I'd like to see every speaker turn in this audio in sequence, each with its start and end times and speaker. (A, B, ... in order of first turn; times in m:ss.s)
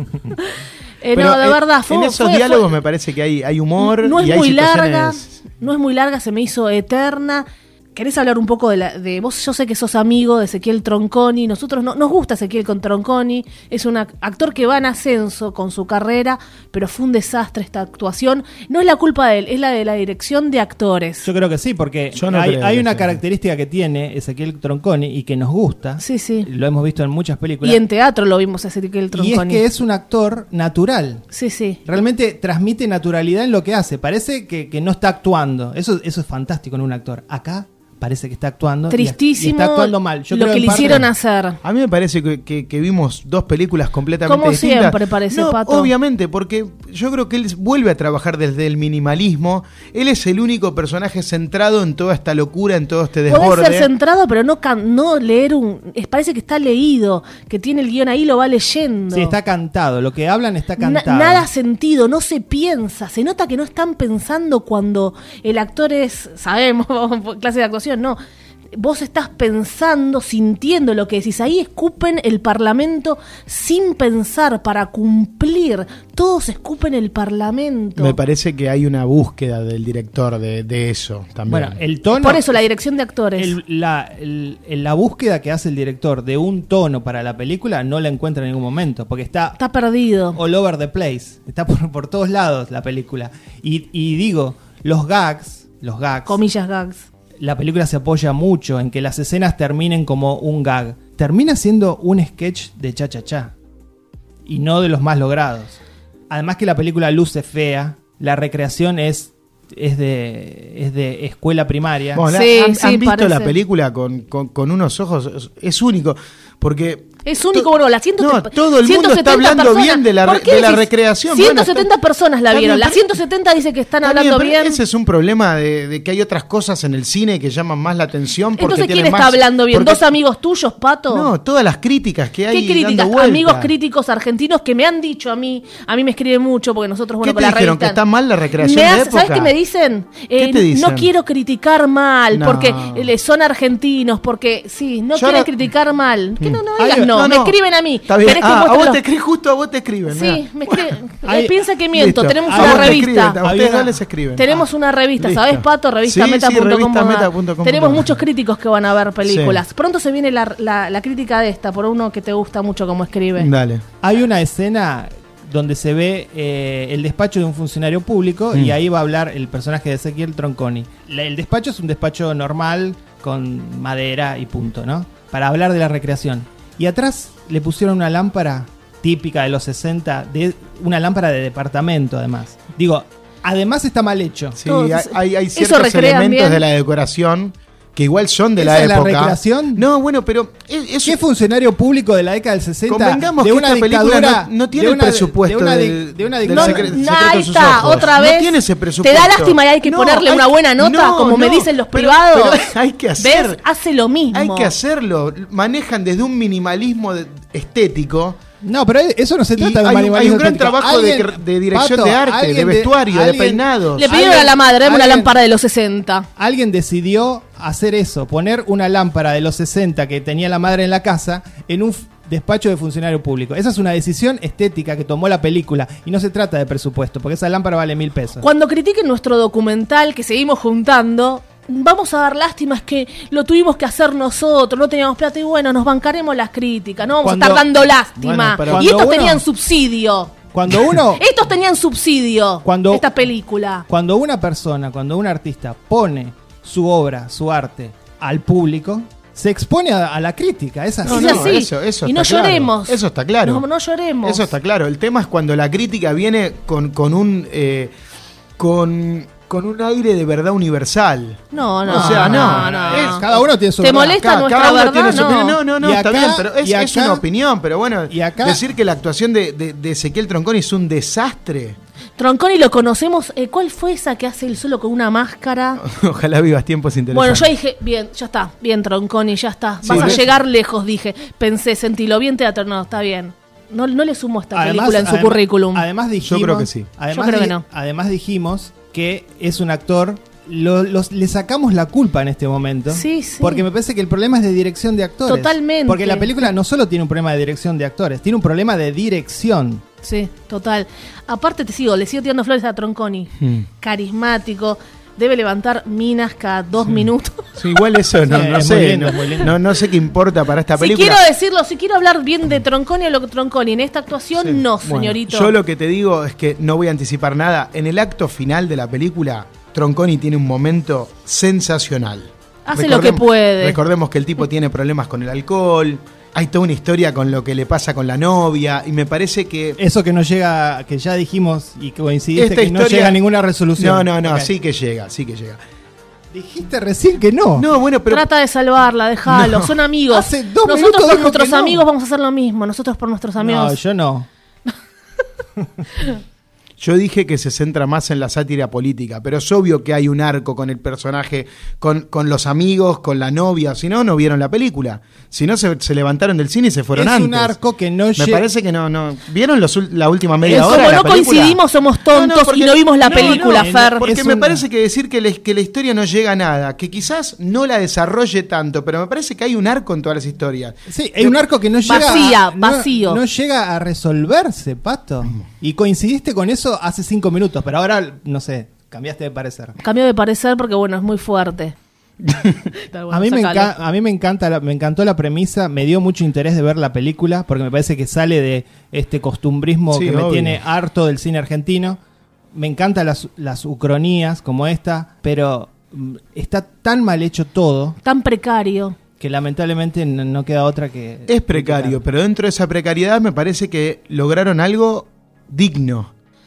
0:00.4-0:02.6 A
0:01.1-0:05.4 B
0:03.8-0:21.2 A
0:21.2-0:27.8 C
0:22.1-0:23.2 B
0:26.0-0:26.5 A
0:27.6-0:29.6 A
0:29.1-0:31.2 C
0:31.3-0:31.8 A
0:31.8-0:41.1 C
0:38.9-0:41.6 A
0:41.6-0:53.9 B
0:44.3-0:45.9 A
0:53.3-0:59.3 A
0:59.1-1:01.5 C
1:00.8-1:08.2 A
1:08.7-1:18.2 A
1:18.0-1:21.8 B
1:21.5-1:22.5 C
1:22.1-1:23.6 A
1:23.4-1:29.6 C
1:29.6-1:30.4 A
1:30.3-1:36.4 C
1:36.2-1:37.0 A
1:37.4-1:43.5 C
1:44.4-1:45.8 C
1:46.3-1:52.2 C
1:52.1-2:01.9 B
1:52.3-1:53.6 A
1:57.2-2:04.8 A
2:02.5-2:03.2 B
2:04.0-2:10.1 B
2:08.6-2:11.3 A
2:11.1-2:13.7 B
2:12.5-2:18.0 A
2:17.2-2:19.5 B
2:18.6-2:29.0 A
2:20.4-2:21.1 B
2:22.3-2:23.1 B
2:25.1-2:25.5 B
2:26.4-2:31.0 B
2:26.8-2:27.1 C
2:30.1-2:33.4 A
2:31.2-2:31.5 C
2:31.9-2:34.6 B
2:32.5-2:34.6 C
2:34.4-2:43.5 A
2:35.2-2:38.2 B
2:39.2-2:39.6 B
2:43.4-2:43.8 B
2:44.0-3:04.6 C
3:04.6-3:11.2 B
3:04.7-3:06.6 A
3:08.6-3:09.8 C
3:11.0-3:17.0 C
3:12.9-3:23.6 B
3:16.5-3:24.7 A
3:17.6-3:18.1 C
3:24.3-3:28.4 B
3:28.6-3:35.3 C
3:29.6-3:34.3 B
3:34.0-3:36.3 A
3:36.4-3:48.4 C
3:48.4-4:03.8 A
3:57.2-3:57.6 C
3:58.2-3:59.1 B
3:58.6-3:59.4 C
4:00.5-4:01.2 C
4:02.6-4:03.1 C
4:03.9-4:11.5 C
4:11.0-4:13.6 B
4:11.0-4:14.5 A
4:14.2-4:17.9 B
4:18.6-4:31.8 B
4:21.5-4:23.2 A
4:21.9-4:24.2 C
4:23.8-4:25.6 A
4:25.8-4:27.2 C
4:28.1-4:28.6 C
4:32.2-4:35.8 A
4:35.8-4:37.5 B
4:37.1-4:45.8 A
4:39.8-4:40.3 B
4:39.9-4:40.2 C
4:44.5-4:59.8 C
4:46.2-4:46.9 B
4:47.1-4:47.6 A
4:52.9-4:53.6 A
4:55.2-4:56.3 A
5:00.0-5:08.0 A
5:03.4-5:03.7 B
5:07.6-5:11.2 B
5:08.2-5:09.5 C
5:10.8-5:15.5 A
5:14.4-5:29.8 B
5:22.7-5:23.8 A
5:29.8-5:34.5 C
5:32.3-5:33.2 B
5:33.8-5:35.6 B
5:36.3-5:37.7 C
5:37.6-5:38.3 B
5:38.1-5:43.8 A
5:39.3-5:39.8 B
5:40.1-5:41.8 C
5:43.4-5:44.3 C
5:46.8-5:57.6 B
5:56.9-5:58.5 C
5:58.2-6:12.3 B
6:00.4-6:01.1 C
6:00.5-6:04.0 A
6:03.0-6:04.6 C
6:10.9-6:19.8 C
6:11.9-6:13.2 A
6:19.8-6:21.7 A
6:22.2-6:22.6 B
6:22.8-6:23.7 A
6:23.1-6:32.0 C
6:29.9-6:30.6 B
6:32.5-6:38.0 C
6:38.0-6:39.0 A
6:39.2-6:42.0 C
6:41.3-6:46.1 B